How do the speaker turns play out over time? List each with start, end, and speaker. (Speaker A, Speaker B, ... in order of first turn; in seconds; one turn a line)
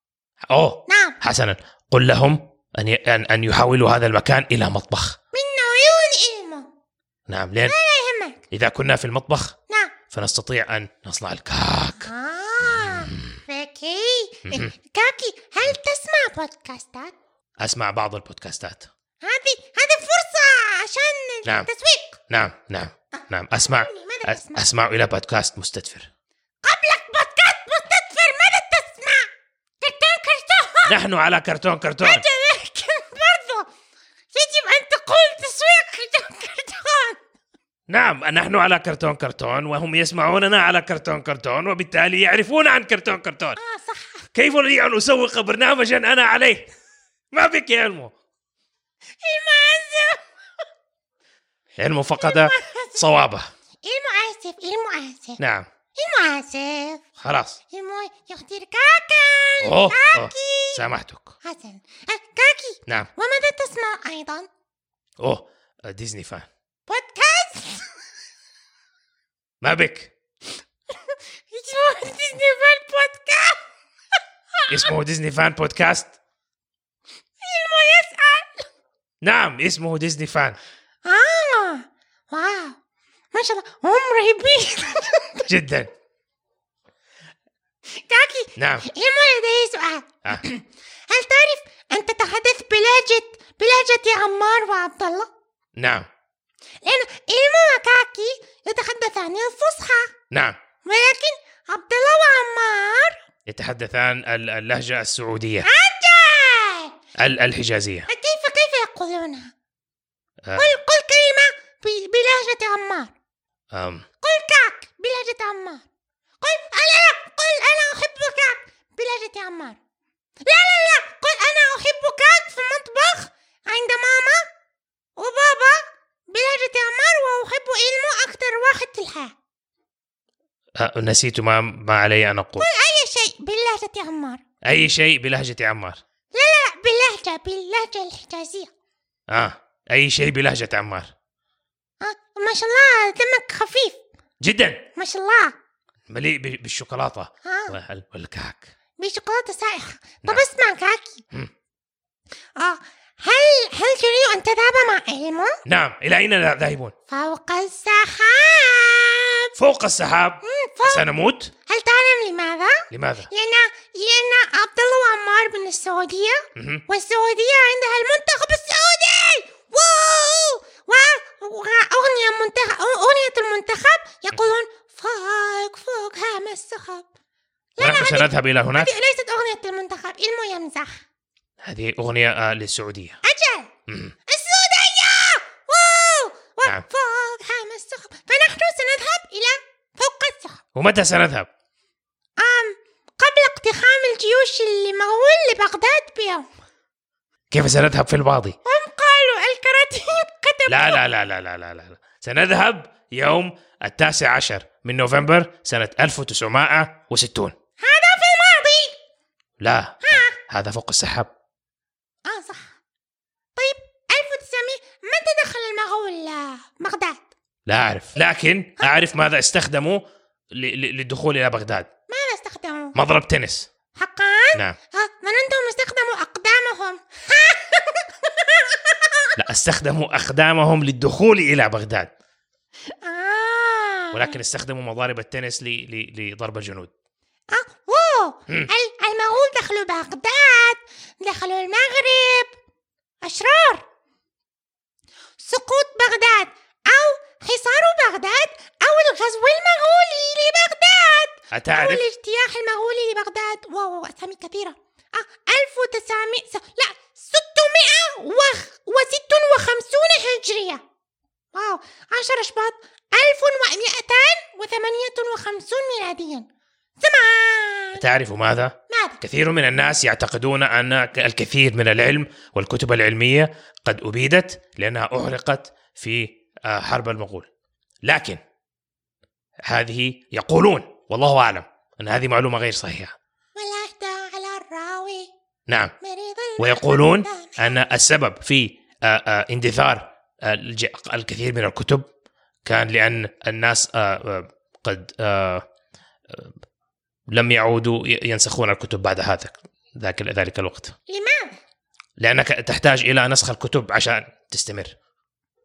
Speaker A: 0.5-5.2
Speaker B: 0.9-1.2
Speaker B: 5.3-6.7
Speaker A: 7.3-7.7
Speaker B: 7.7-8.4
Speaker A: 8.5-9.6
Speaker B: 9.7-9.9
Speaker A: 10.1-12.1
Speaker B: 12.0-17.1
Speaker A: 12.6-13.4
Speaker A: 14.5-14.7
Speaker A: 17.6-18.9
Speaker B: 19.2-22.2
Speaker A: 22.3-26.1
Speaker B: 23.1-24.6
Speaker B: 26.6-29.3
Speaker B: 29.8-30.9
Speaker A: 30.9-32.2
Speaker B: 32.0-33.7
Speaker B: 34.3-37.2
Speaker A: 37.9-43.6
Speaker B: 43.6-44.3
Speaker A: 44.3-46.7
Speaker A: 47.3-48.1
Speaker B: 49.2-50.2
Speaker A: 51.8-53.5
Speaker B: 52.2-53.0
Speaker B: 53.8-55.4
Speaker A: 55.4-55.6
Speaker B: 56.0-57.0
Speaker A: 57.2-57.6
Speaker B: 57.7-60.8
Speaker A: 59.6-61.3
Speaker B: 61.4-64.5
Speaker A: 65.2-66.5
Speaker B: 66.9-67.9
Speaker A: 69.6-70.1
Speaker B: 71.1-73.6
Speaker A: 74.7-76.1
Speaker B: 77.4-78.7
Speaker A: 79.2-80.6
Speaker B: 81.0-82.8
Speaker B: 83.3-85.5
Speaker A: 85.5-85.9
Speaker B: 88.0-95.3
Speaker A: 88.5-88.9
Speaker A: 95.8-96.1
Speaker B: 96.8-100.1
Speaker A: 100.3-100.5
Speaker B: 100.8-103.2
Speaker A: 103.5-105.7
Speaker B: 105.6-106.9
Speaker A: 107.2-108.1
Speaker B: 108.1-109.5
Speaker A: 110.4-110.8
Speaker B: 110.5-113.1
Speaker A: 113.7-114.0
Speaker B: 114.2-115.8
Speaker B: 116.4-119.8
Speaker B: 120.4-124.4
Speaker B: 125.2-129.3
Speaker A: 130.8-132.7
Speaker B: 132.6-134.4
Speaker A: 134.6-136.0
Speaker B: 136.3-138.7
Speaker A: 139.3-141.1
Speaker B: 142.0-144.0
Speaker A: 144.4-144.8
Speaker B: 144.9-145.5
Speaker A: 146.1-148.7
Speaker B: 147.4-147.7
Speaker B: 149.0-151.2
Speaker B: 152.6-155.6
Speaker A: 155.7-156.9
Speaker B: 157.1-159.5
Speaker A: 159.6-161.5
Speaker B: 160.4-161.1
Speaker B: 161.6-177.1
Speaker A: 162.9-163.3
Speaker A: 166.6-166.8
Speaker B: 177.8-181.0
Speaker A: 177.8-178.9
Speaker A: 181.6-183.2
Speaker B: 183.2-183.7
Speaker A: 183.9-184.1
Speaker B: 184.3-190.6
Speaker A: 190.7-191.5
Speaker B: 192.4-196.5
Speaker A: 197.5-198.6
Speaker B: 198.6-201.0
Speaker A: 200.7-207.5
Speaker B: 207.8-209.0
Speaker A: 209.6-211.3
Speaker B: 210.0-210.3
Speaker B: 212.2-212.7
Speaker B: 213.6-217.2
Speaker A: 217.7-221.9
Speaker B: 222.1-222.9
Speaker A: 222.9-223.7
Speaker B: 224.0-229.3
Speaker A: 229.3-232.1
Speaker B: 233.0-234.3
Speaker A: 234.1-236.9
Speaker B: 237.5-242.5
Speaker B: 243.2-243.8
Speaker B: 245.4-260.8
Speaker A: 251.5-252.0
Speaker B: 261.5-266.4
Speaker B: 267.0-268.0
Speaker A: 267.9-277.5
Speaker B: 268.9-269.2
Speaker A: 278.0-278.4
Speaker A: 279.6-283.1
Speaker B: 283.5-285.3
Speaker A: 285.7-285.9
Speaker B: 286.0-287.8
Speaker A: 286.6-292.0
Speaker A: 292.6-295.6
Speaker A: 297.3-300.9
Speaker B: 301.1-301.6
Speaker A: 302.2-304.9